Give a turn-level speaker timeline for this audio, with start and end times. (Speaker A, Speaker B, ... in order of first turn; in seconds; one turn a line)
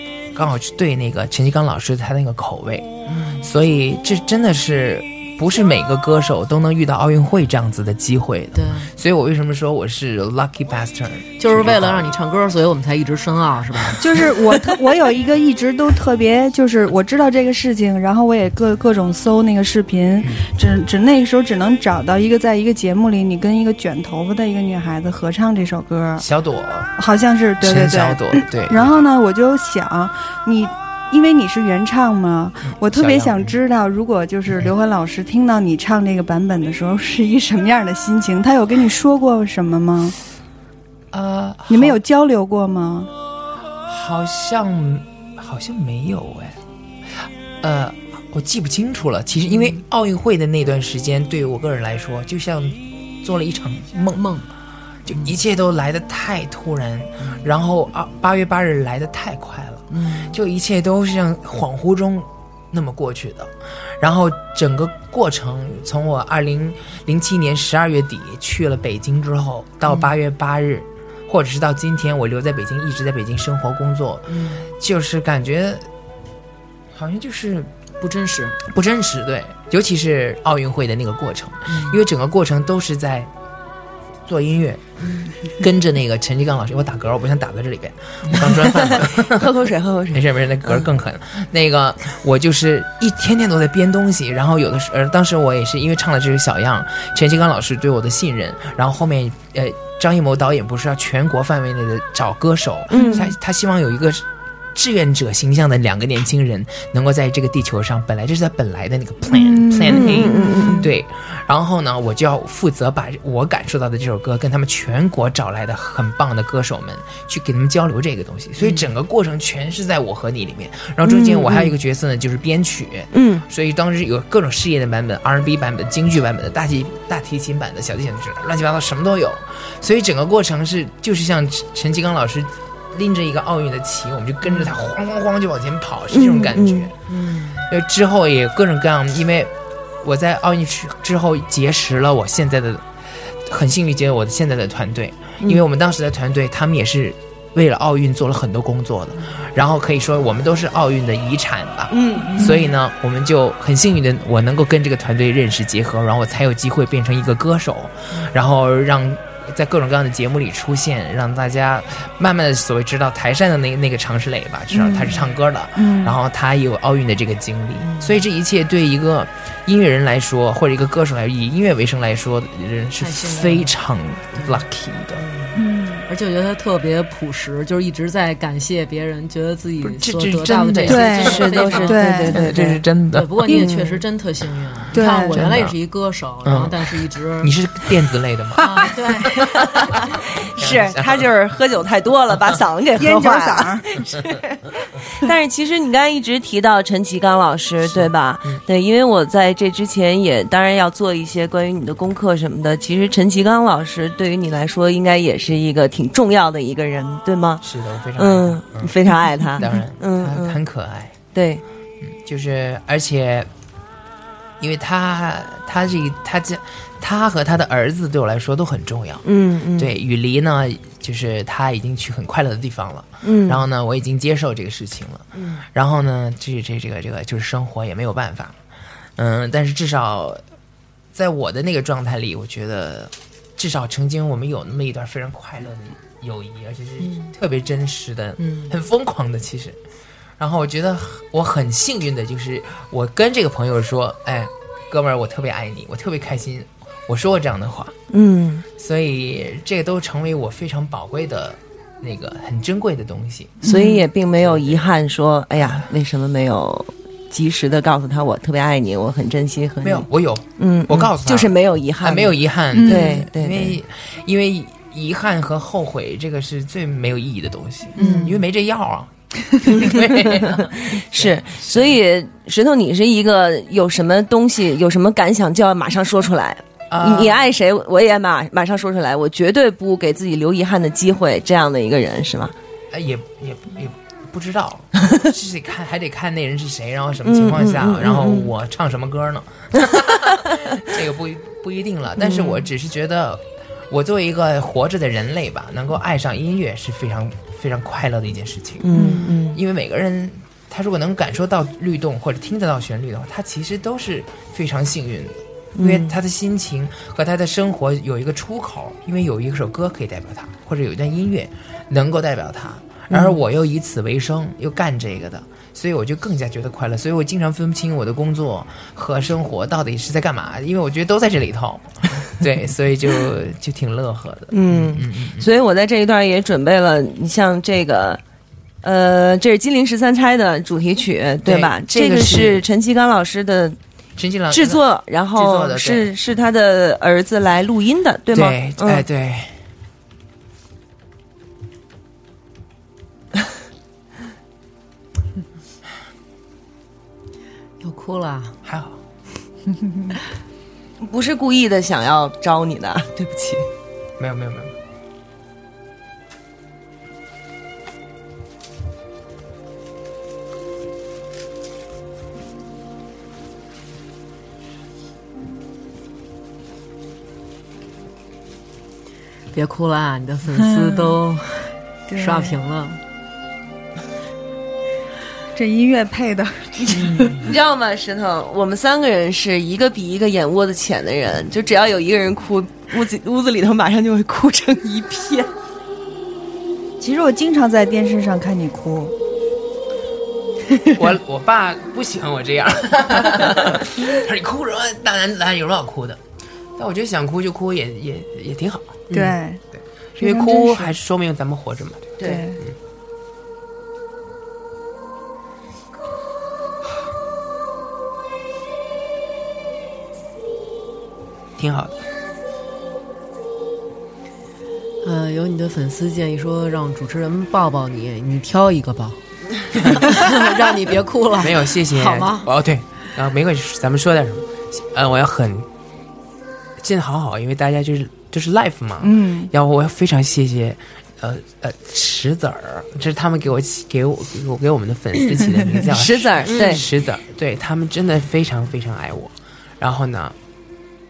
Speaker A: 0.3-12.1
Speaker B: 3.1-3.4
Speaker B: 8.6-8.9
Speaker B: 11.4-14.0
Speaker C: 14.0-26.3
Speaker A: 26.2-26.9
Speaker C: 27.0-40.2
Speaker A: 27.6-29.0
Speaker A: 32.7-33.6
Speaker A: 41.1-42.0
Speaker C: 41.7-43.1
Speaker A: 43.9-46.6
Speaker A: 47.2-54.2
Speaker B: 54.1-54.5
Speaker A: 55.1-75.9
Speaker B: 59.9-60.3
Speaker B: 74.3-74.7
Speaker A: 76.9-77.7
Speaker B: 78.0-78.6
Speaker A: 78.7-83.3
Speaker B: 81.7-82.0
Speaker A: 84.3-84.9
Speaker B: 85.0-85.3
Speaker A: 85.5-89.5
Speaker D: 88.6-90.9
Speaker A: 90.1-136.9
Speaker D: 102.9-103.3
Speaker C: 102.9-103.3
Speaker C: 109.3-110.9
Speaker D: 109.9-110.9
Speaker D: 121.0-121.7
Speaker D: 123.1-123.5
Speaker D: 136.1-136.9
Speaker B: 137.1-137.6
Speaker A: 137.6-142.9
Speaker A: 143.4-175.2
Speaker D: 151.9-152.5
Speaker C: 164.7-166.2
Speaker B: 173.0-173.8
Speaker B: 174.3-174.6
Speaker C: 175.6-176.1
Speaker B: 176.1-182.2
Speaker A: 179.8-181.8
Speaker C: 180.9-182.4
Speaker D: 181.2-182.8
Speaker A: 182.3-183.4
Speaker B: 183.1-187.5
Speaker D: 183.5-184.0
Speaker C: 184.9-185.5
Speaker A: 185.3-185.8
Speaker A: 186.4-186.8
Speaker A: 187.4-188.9
Speaker B: 188.6-189.5
Speaker D: 190.4-194.3
Speaker A: 190.6-191.3
Speaker C: 193.0-193.9
Speaker D: 195.2-207.6
Speaker A: 197.8-198.6
Speaker A: 207.6-209.0
Speaker D: 208.2-210.6
Speaker A: 209.6-211.2
Speaker D: 211.3-211.6
Speaker A: 212.0-213.5
Speaker A: 214.6-219.2
Speaker D: 219.2-219.9
Speaker A: 219.8-228.6
Speaker D: 223.2-223.6
Speaker A: 229.2-230.4
Speaker A: 231.1-239.8
Speaker B: 237.0-237.3
Speaker B: 238.4-238.7
Speaker A: 240.4-248.0
Speaker D: 248.1-248.7
Speaker A: 248.8-253.6
Speaker C: 253.6-254.0
Speaker D: 253.6-263.8
Speaker A: 254.4-254.9
Speaker A: 255.6-255.9
Speaker A: 259.8-272.0
Speaker C: 262.7-263.2
Speaker B: 268.0-268.3
Speaker C: 268.0-268.3
Speaker D: 269.7-282.5
Speaker A: 276.9-277.4
Speaker A: 282.9-325.5
Speaker D: 287.2-288.5
Speaker D: 292.2-292.6
Speaker D: 298.8-299.6
Speaker D: 305.8-306.1
Speaker D: 313.1-313.4
Speaker D: 324.5-328.2
Speaker D: 328.8-333.8
Speaker A: 331.4-332.6
Speaker A: 334.2-334.8
Speaker D: 334.5-339.1
Speaker A: 335.3-336.1
Speaker A: 338.3-339.5
Speaker B: 347.8-348.6
Speaker A: 348.6-349.0
Speaker D: 351.0-353.7
Speaker A: 354.2-354.8
Speaker B: 369.5-373.0
Speaker C: 370.6-371.2
Speaker C: 372.1-372.6
Speaker C: 375.6-377.4
Speaker D: 376.9-385.5
Speaker C: 387.0-389.1
Speaker A: 390.9-396.2
Speaker A: 396.8-399.1
Speaker C: 399.1-399.6
Speaker A: 399.8-402.8
Speaker C: 400.2-400.9
Speaker D: 402.2-402.4
Speaker C: 402.2-402.6
Speaker A: 411.6-412.0
Speaker B: 415.0-419.2
Speaker A: 419.8-420.4
Speaker B: 419.8-422.5
Speaker A: 421.4-425.7
Speaker A: 426.8-440.4
Speaker C: 429.0-429.5
Speaker D: 435.9-436.9